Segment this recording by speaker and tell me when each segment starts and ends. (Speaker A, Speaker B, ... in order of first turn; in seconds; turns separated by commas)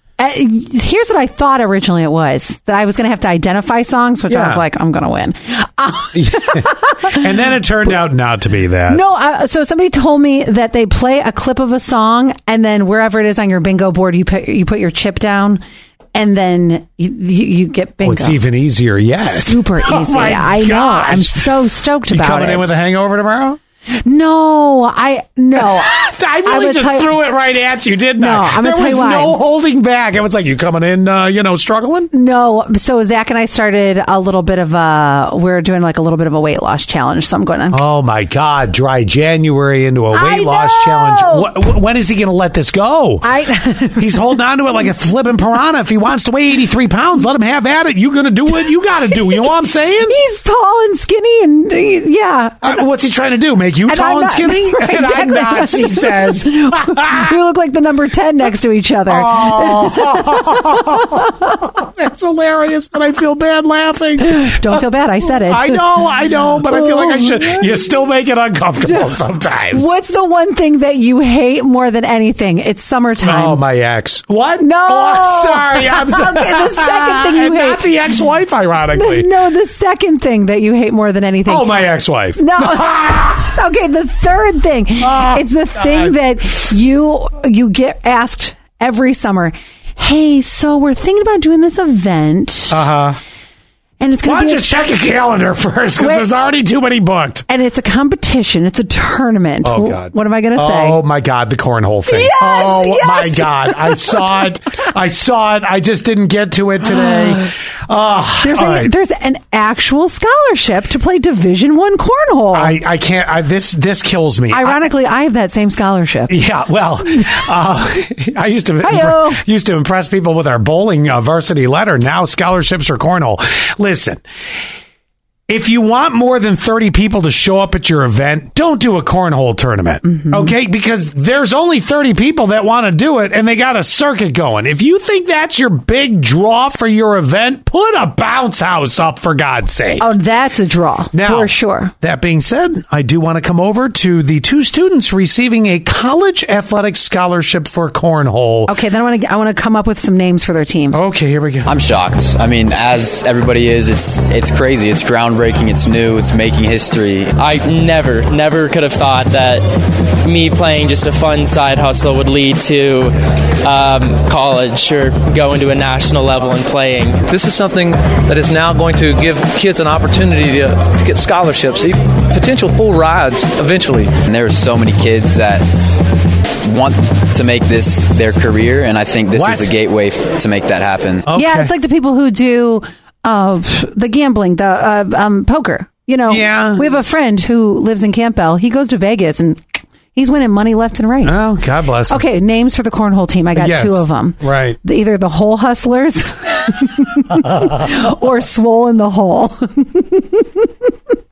Speaker A: 0.2-7.2, Speaker B: 4.3-4.6, Speaker B: 6.1-9.0, Speaker A: 8.9-15.6, Speaker A: 16.1-18.4, Speaker B: 18.0-23.6, Speaker A: 19.4-22.7, Speaker A: 24.0-27.1, Speaker B: 25.6-32.1, Speaker A: 28.2-29.4, Speaker A: 32.1-37.8, Speaker B: 37.7-43.2, Speaker A: 40.1-41.5, Speaker A: 43.2-44.2, Speaker B: 43.9-50.1, Speaker A: 49.3-49.5, Speaker A: 50.1-52.8, Speaker B: 52.6-57.3, Speaker A: 53.9-61.3, Speaker B: 59.1-69.9, Speaker A: 64.2-66.1, Speaker A: 66.6-67.7, Speaker A: 68.8-73.6, Speaker B: 73.2-79.3, Speaker A: 74.6-77.9, Speaker A: 78.9-81.8, Speaker B: 81.5-83.5, Speaker A: 82.4-92.8, Speaker B: 85.0-86.1, Speaker B: 92.7-93.2, Speaker A: 94.0-94.7, Speaker B: 94.2-97.5, Speaker A: 96.0-96.2, Speaker A: 97.5-101.0, Speaker B: 99.6-108.9, Speaker A: 102.1-104.4, Speaker A: 106.9-107.5, Speaker A: 108.4-112.8, Speaker B: 112.5-114.8, Speaker A: 114.5-116.3, Speaker B: 116.3-124.2, Speaker A: 118.8-119.4, Speaker B: 125.5-140.1, Speaker A: 130.1-130.5, Speaker A: 140.0-141.9, Speaker B: 141.1-148.7, Speaker A: 148.7-151.0, Speaker B: 150.9-151.7, Speaker C: 151.6-157.4, Speaker D: 157.4-159.6, Speaker D: 160.2-167.2, Speaker E: 167.3-174.2, Speaker C: 174.2-175.7, Speaker C: 176.6-181.2, Speaker B: 179.3-179.7, Speaker B: 181.2-181.7, Speaker A: 181.3-189.6, Speaker B: 186.3-187.0, Speaker A: 190.1-191.4, Speaker B: 191.2-192.2, Speaker A: 192.1-200.7, Speaker B: 193.5-194.8